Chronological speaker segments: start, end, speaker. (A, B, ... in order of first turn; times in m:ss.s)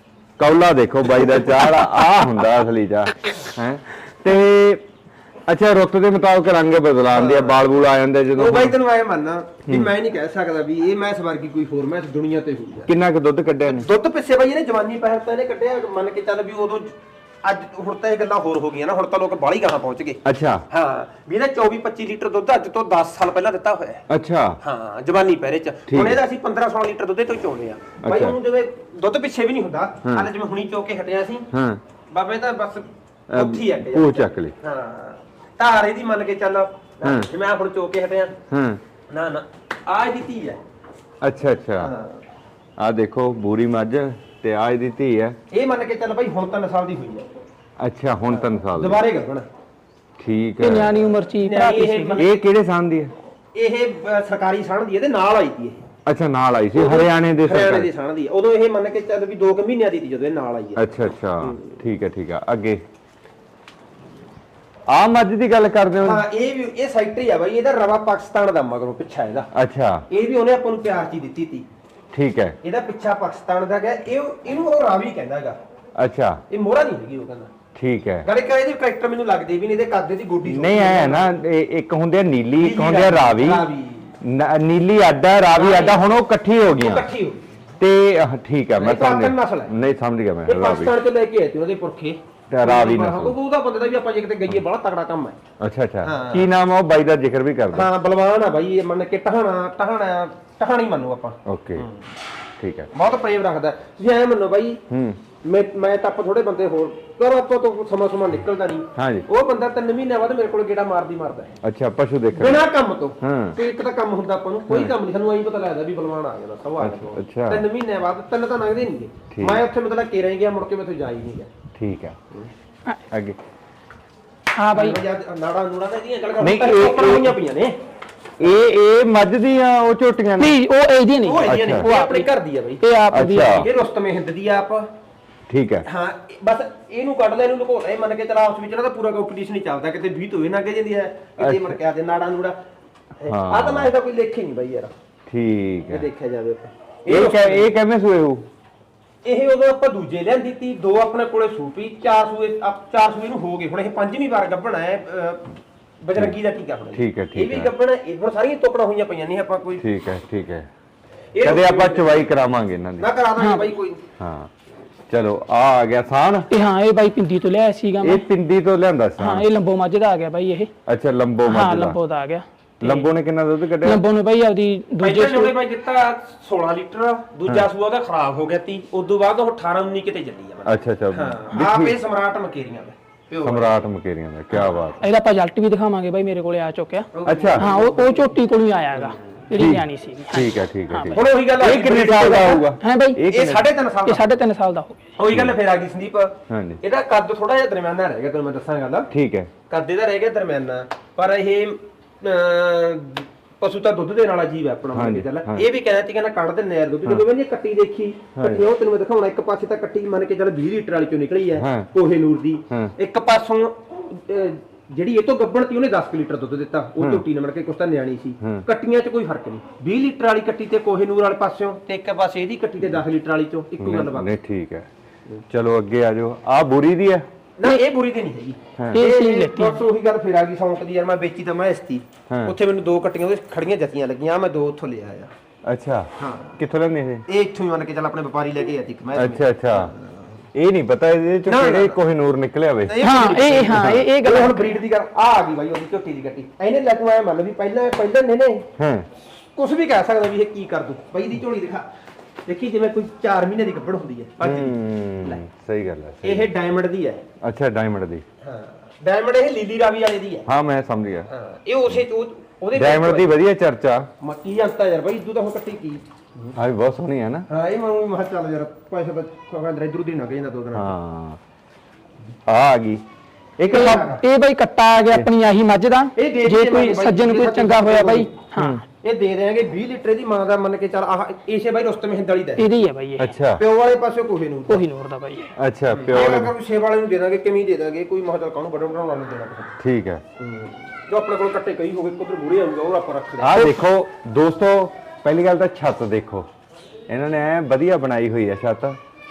0:00.4-0:04.8 A
0:01.0-0:01.6 B
0:05.5-0:08.8 A
0:07.1-0:07.7 B
0:08.3-0:12.9 B
0:09.7-0:09.9 A
0:12.9-0:13.9 A
0:13.7-0:24.0 B
0:20.2-0:20.6 A
0:24.1-0:24.6 A
0:24.6-0:31.5 B
0:25.9-0:26.2 A
0:28.0-0:28.4 A
0:31.5-0:31.8 A
0:32.1-0:38.4 B
0:33.3-0:34.5 A
0:38.5-0:38.8 A
0:39.1-0:40.6 B
0:41.2-0:41.9 A
0:41.8-0:42.2 B
0:42.8-0:45.4 A
0:45.5-0:47.3 B
0:47.8-0:49.0 A
0:48.3-0:49.5 B
0:50.2-0:51.0 A
0:50.6-0:52.2 C
0:51.3-0:52.5 B
0:52.1-0:53.1 A
0:53.5-0:55.8 B
0:56.1-0:57.9 A
0:56.7-1:01.7 B
1:00.8-1:02.8 A
1:04.9-1:06.2 A
1:06.0-1:09.5 B
1:09.5-1:10.0 A
1:10.1-1:11.7 B
1:12.1-1:12.6 A
1:12.6-1:15.6 B
1:16.0-1:16.4 A
1:16.5-1:17.5 B
1:17.8-1:18.3 A
1:18.2-1:21.3 B
1:20.5-1:23.6 A
1:22.6-1:24.1 B
1:24.2-1:27.1 A
1:25.5-1:26.0 B
1:26.7-1:27.4 B
1:27.8-1:31.0 A
1:28.8-1:29.7 B
1:30.5-1:35.4 B
1:32.5-1:33.4 A
1:35.6-1:37.9 A
1:36.0-1:36.5 B
1:37.7-1:42.1 B
1:41.5-1:41.9 A
1:42.6-1:42.9 A
1:42.9-1:44.8 B
1:44.9-1:45.2 A
1:45.4-1:51.6 B
1:49.0-1:49.2 A
1:51.6-1:52.7 A
1:52.3-2:01.5 B
1:53.2-1:53.6 A
1:56.8-1:57.6 A
1:59.3-1:59.6 A
2:01.8-2:02.2 A
2:03.1-2:03.4 A
2:04.6-2:05.0 C
2:04.7-2:07.8 B
2:06.4-2:07.4 A
2:08.4-2:10.6 A
2:10.4-2:12.3 C
2:11.2-2:14.9 B
2:11.4-2:11.9 A
2:12.8-2:13.5 C
2:13.1-2:13.7 A
2:15.5-2:15.9 A
2:15.8-2:22.6 B
2:21.4-2:21.7 A
2:23.2-2:24.9 B
2:23.3-2:23.9 A
2:25.3-2:26.1 A
2:25.9-2:27.7 B
2:27.1-2:28.5 A
2:29.2-2:35.5 B
2:36.0-2:39.8 B
2:36.9-2:37.7 A
2:39.8-2:40.7 A
2:41.4-2:42.4 B
2:41.4-2:43.2 A
2:43.0-2:44.0 B
2:43.4-2:43.7 C
2:44.2-2:44.5 A
2:45.1-2:46.5 A
2:46.5-2:48.2 C
2:48.0-2:49.5 A
2:49.2-2:50.7 C
2:50.9-2:52.0 A
2:51.5-2:53.1 C
2:52.8-2:54.0 A
2:53.8-2:55.5 C
2:55.0-3:03.8 B
3:00.6-3:01.9 A
3:03.4-3:05.0 A
3:04.6-3:07.1 C
3:07.1-3:08.4 B
3:07.3-3:07.7 A
3:07.6-3:11.3 C
3:08.9-3:09.2 B
3:09.5-3:13.7 A
3:11.1-3:12.7 B
3:12.2-3:13.2 C
3:13.2-3:14.4 B
3:14.1-3:15.0 C
3:15.2-3:19.1 B
3:16.5-3:16.8 A
3:19.1-3:19.5 A
3:19.7-3:44.3 B
3:24.9-3:25.7 A
3:28.4-3:28.7 A
3:31.6-3:31.9 A
3:43.8-3:44.9 A
3:45.5-3:47.3 A
3:47.6-3:55.3 B
3:48.8-3:49.0 A
3:48.9-3:49.8 C
3:52.3-3:52.6 A
3:55.7-3:57.2 A
3:56.2-3:56.6 B
3:57.3-4:00.2 B
3:59.2-3:59.9 A
4:00.6-4:04.1 A
4:01.5-4:02.0 B
4:02.9-4:08.7 B
4:03.0-4:04.7 C
4:08.8-4:09.1 A
4:09.2-4:11.9 B
4:12.5-4:15.4 B
4:14.4-4:16.5 A
4:16.2-4:17.2 B
4:17.4-4:18.2 A
4:18.4-4:20.5 B
4:20.5-4:21.3 A
4:21.3-4:23.3 B
4:22.7-4:24.1 A
4:24.2-4:26.6 B
4:26.6-4:27.5 A
4:27.5-4:30.9 B
4:30.7-4:31.4 A
4:32.5-4:33.0 A
4:33.6-4:34.1 A
4:33.7-4:38.8 C
4:33.7-4:34.2 B
4:36.1-4:38.4 B
4:38.6-4:38.8 A
4:38.9-4:42.7 B
4:42.6-4:43.3 C
4:43.2-4:43.6 A
4:43.5-4:44.9 B
4:44.7-4:45.5 C
4:45.6-4:46.5 A
4:45.9-4:49.8 B
4:49.8-4:50.2 A
4:50.4-4:53.6 B
4:53.4-4:56.5 A
4:57.1-4:59.0 A